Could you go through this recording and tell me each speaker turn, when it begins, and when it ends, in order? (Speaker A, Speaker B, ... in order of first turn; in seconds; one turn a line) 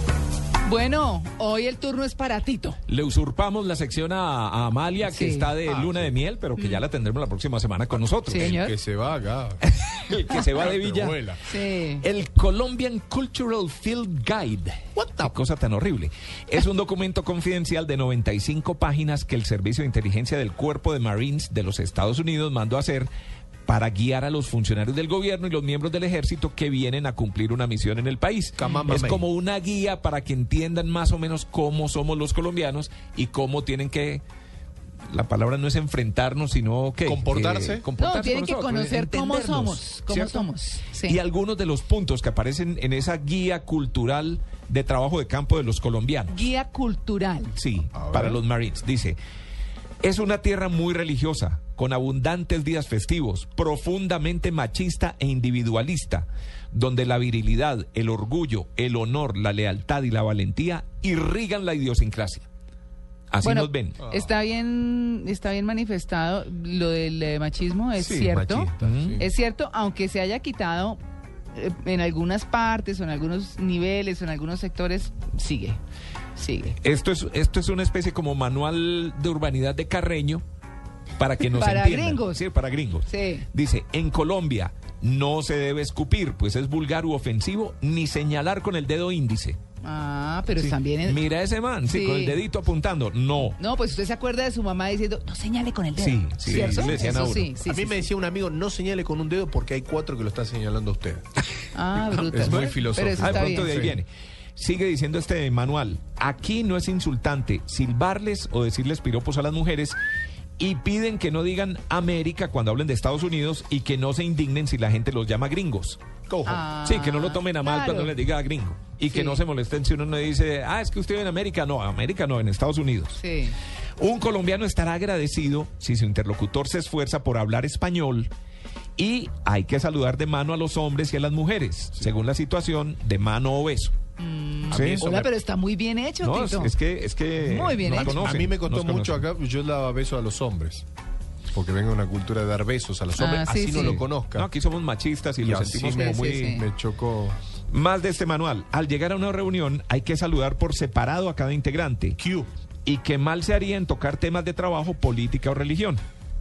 Speaker A: 0.6-2.8
Speaker B: 2.9-8.6
Speaker A: 5.0-5.5
Speaker C: 5.6-6.1
Speaker A: 6.6-6.8
Speaker A: 8.3-8.8
Speaker C: 8.3-9.6
Speaker B: 9.6-11.3
Speaker C: 10.6-11.4
Speaker A: 11.4-12.0
Speaker B: 12.0-23.1
Speaker C: 15.0-15.3
Speaker B: 23.6-34.2
Speaker C: 28.6-29.2
Speaker B: 35.1-40.5
Speaker C: 37.0-37.9
Speaker A: 38.0-41.2
Speaker B: 41.0-46.4
Speaker A: 46.3-47.5
Speaker B: 47.5-49.2
Speaker C: 47.9-48.4
Speaker B: 50.0-62.5
Speaker B: 63.3-64.0
Speaker A: 63.4-71.0
Speaker C: 64.0-64.3
Speaker C: 68.0-69.2
Speaker B: 68.8-69.2
Speaker A: 71.5-75.8
Speaker A: 76.3-76.8
Speaker B: 76.8-80.4
Speaker B: 81.2-89.6
Speaker A: 81.5-82.4
Speaker A: 83.1-83.5
Speaker A: 89.8-91.2
Speaker B: 91.0-93.6
Speaker A: 91.8-92.4
Speaker A: 93.6-98.1
Speaker B: 96.0-97.5
Speaker C: 96.5-101.2
Speaker A: 101.7-103.8
Speaker B: 102.3-110.0
Speaker C: 102.3-104.0
Speaker B: 110.6-116.0
Speaker C: 116.3-116.6
Speaker A: 116.4-118.1
Speaker B: 116.8-123.2
Speaker A: 119.1-119.4
Speaker A: 123.2-123.6
Speaker B: 124.0-128.3
Speaker B: 129.0-134.0
Speaker A: 134.2-136.7
Speaker C: 134.7-135.3
Speaker B: 134.7-135.2
Speaker B: 136.2-139.2
Speaker A: 137.4-138.3
Speaker C: 137.8-140.8
Speaker C: 141.5-144.5
Speaker A: 143.1-144.0
Speaker B: 144.3-146.6
Speaker C: 145.4-147.3
Speaker A: 145.9-146.7
Speaker B: 147.7-152.2
Speaker C: 152.2-152.5
Speaker B: 152.8-156.0